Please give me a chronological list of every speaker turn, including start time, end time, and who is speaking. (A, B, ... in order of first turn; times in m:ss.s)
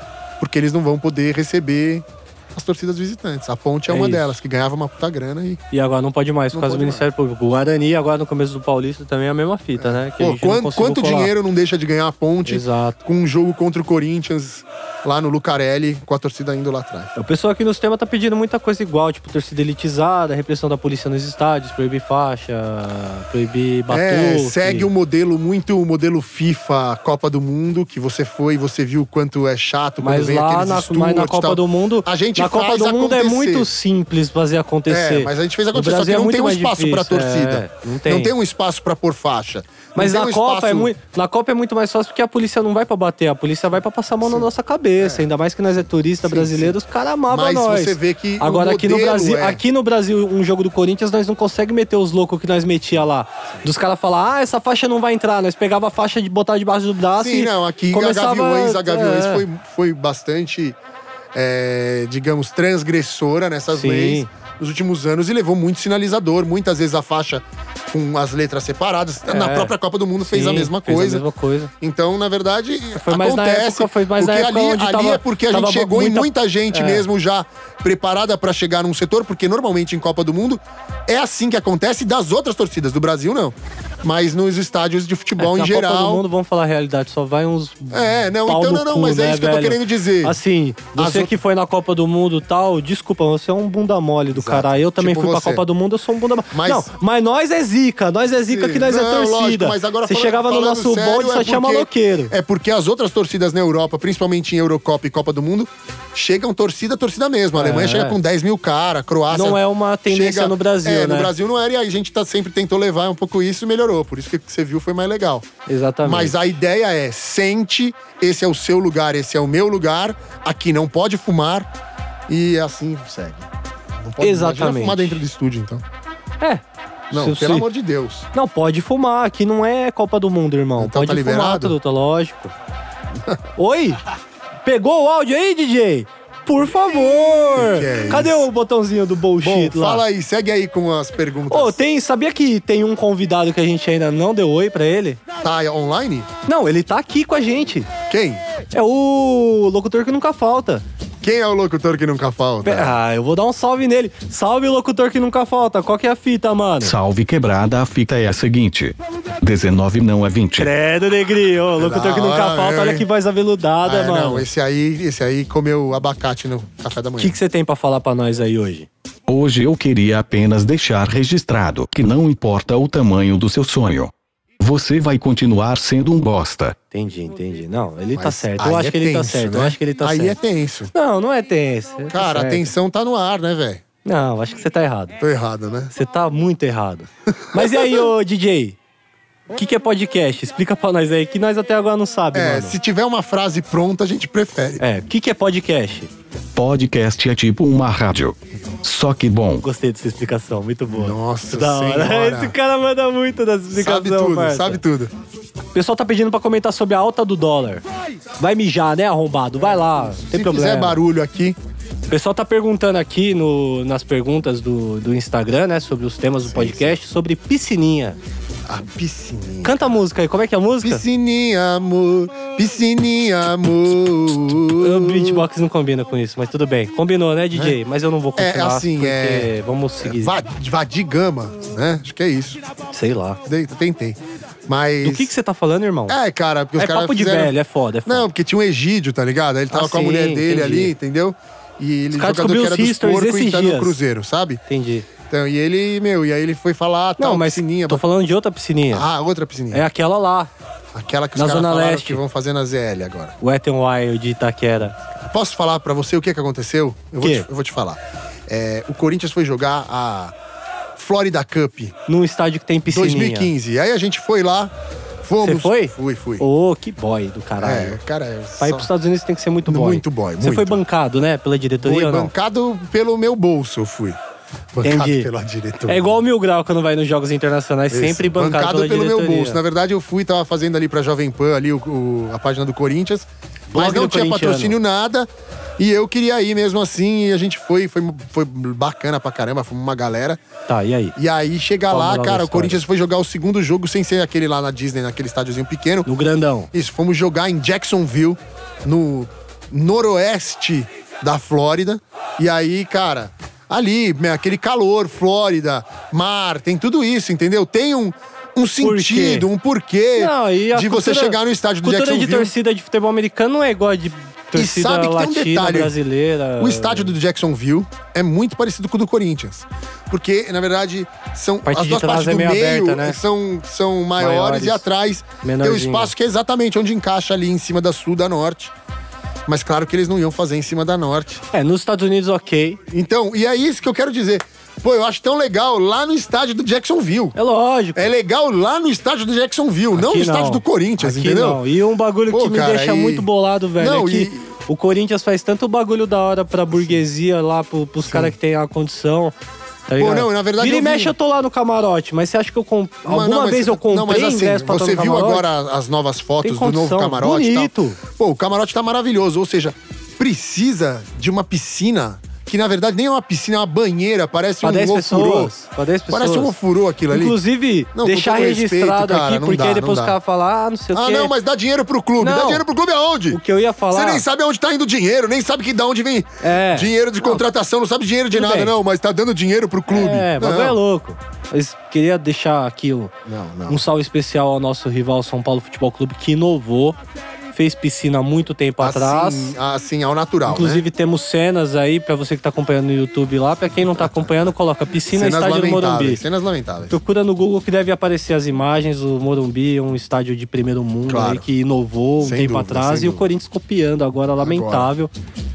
0:00.4-0:05.6 A
0:03.9-0:04.3 B
0:05.7-0:11.3 B
0:06.5-0:07.0 A
0:09.8-0:17.1 A
0:12.4-0:13.0 B
0:17.2-0:24.9 B
0:23.9-0:33.7 A
0:30.0-0:38.3 B
0:34.9-0:40.9 A
0:40.0-0:59.4 B
0:45.0-0:45.2 A
0:46.2-0:46.8 A
0:47.3-0:49.6 A
0:57.2-1:00.8 A
1:01.3-1:11.2 A
1:03.7-1:04.3 B
1:09.2-1:11.7 B
1:11.8-1:26.2 A
1:13.0-1:17.0 B
1:25.4-1:42.3 B
1:27.9-1:30.4 A
1:31.0-1:31.3 A
1:34.3-1:35.6 A
1:36.5-1:36.9 A
1:38.4-1:55.5 A
1:47.6-1:48.2 B
1:49.3-1:51.3 B
1:55.6-1:56.3 B
1:56.0-2:01.7 A
2:02.3-2:03.5 A
2:04.0-2:05.8 A
2:04.2-2:05.2 B
2:06.4-2:07.7 B
2:07.1-2:08.3 A
2:08.3-2:12.5 B
2:10.8-2:11.8 A
2:13.6-2:14.0 B
2:14.6-2:20.0 B
2:17.5-2:18.4 A
2:19.4-2:21.8 A
2:21.5-2:25.2 B
2:25.4-2:26.3 A
2:26.4-2:27.9 B
2:28.1-2:28.4 A
2:28.7-2:30.8 B
2:31.2-2:33.0 A
2:32.6-2:36.9 B
2:36.8-2:40.7 C
2:40.6-2:44.4 B
2:41.8-2:43.1 A
2:43.8-2:47.4 A
2:47.2-2:48.9 B
2:49.3-2:56.7 C
2:56.9-3:00.4 B
2:58.1-3:00.9 A
3:00.9-3:02.7 B
3:02.1-3:03.8 A
3:04.0-3:05.2 B
3:05.2-3:05.9 A
3:05.9-3:08.8 B
3:07.3-3:08.0 A
3:09.5-3:12.8 B
3:12.3-3:14.8 A
3:14.8-3:16.1 B
3:16.5-3:19.6 C
3:19.6-3:24.8 B
3:20.9-3:22.6 A
3:23.7-3:25.1 A
3:25.7-3:27.8 B
3:28.4-3:31.0 B
3:30.2-3:31.6 A
3:32.1-3:38.2 B
3:36.4-3:37.0 A
3:38.6-3:39.8 A
3:39.6-3:41.0 B
3:40.8-3:45.4 A
3:44.6-3:50.4 B
3:48.4-3:49.5 A
3:50.0-3:52.6 A
3:52.9-3:53.4 B
3:53.4-3:55.3 A
3:55.0-3:56.2 B
3:56.1-3:57.5 A
3:56.8-3:58.3 B
3:58.0-4:04.6 A
3:59.7-4:00.9 B
4:02.1-4:04.0 B
4:04.7-4:05.1 B
4:05.2-4:08.0 A
4:07.2-4:09.1 B
4:08.9-4:09.8 A
4:09.7-4:10.5 B
4:10.9-4:13.3 A
4:11.4-4:12.2 B
4:13.4-4:15.0 B
4:15.2-4:20.3 A
4:17.2-4:17.4 B
4:20.9-4:21.9 A
4:22.1-4:23.5 B
4:22.9-4:24.7 A
4:25.2-4:26.4 A
4:25.4-4:28.0 B
4:27.6-4:28.9 A
4:28.6-4:32.3 B
4:29.7-4:30.8 A
4:31.8-4:34.2 A
4:34.7-4:36.2 A
4:34.8-4:35.3 B
4:35.9-4:39.6 B
4:37.9-4:50.4 A
4:43.7-4:44.8 B
4:50.7-4:51.2 B
4:51.2-4:56.1 A
4:51.9-4:52.8 B
4:56.0-4:56.7 B
4:56.7-5:12.5 A
5:08.8-5:09.5 B
5:10.2-5:17.1 B
5:14.5-5:15.9 A
5:16.6-5:28.7 A
5:21.6-5:23.2 B
5:24.2-5:24.8 B
5:25.4-5:26.1 B
5:29.5-5:31.4 A
5:31.5-5:32.8 B
5:32.9-5:37.4 A
5:37.3-5:38.0 B
5:37.9-5:41.6 A
5:39.9-5:49.3 B
5:42.3-5:43.3 A
5:43.8-5:44.5 A
5:48.0-5:48.3 A
5:49.9-5:55.4 B
5:50.0-5:51.1 A
5:53.1-6:05.5 A
5:56.4-5:58.0 B
6:04.6-6:06.5 B
6:06.1-6:07.4 A
6:07.1-6:11.3 B
6:07.9-6:10.2 A
6:10.9-6:20.8 A
6:12.2-6:12.6 B
6:13.3-6:14.2 B
6:16.4-6:17.4 B
6:18.3-6:18.7 B
6:19.9-6:23.1 B
6:23.2-6:23.8 A
6:23.7-6:27.0 B
6:27.5-6:29.5 B
6:28.8-6:30.8 A
6:30.4-6:36.2 B
6:34.0-6:34.3 A
6:35.1-6:37.0 A
6:36.9-6:45.1 B
6:41.1-6:41.4 A
6:42.2-6:43.3 A
6:44.4-6:44.9 A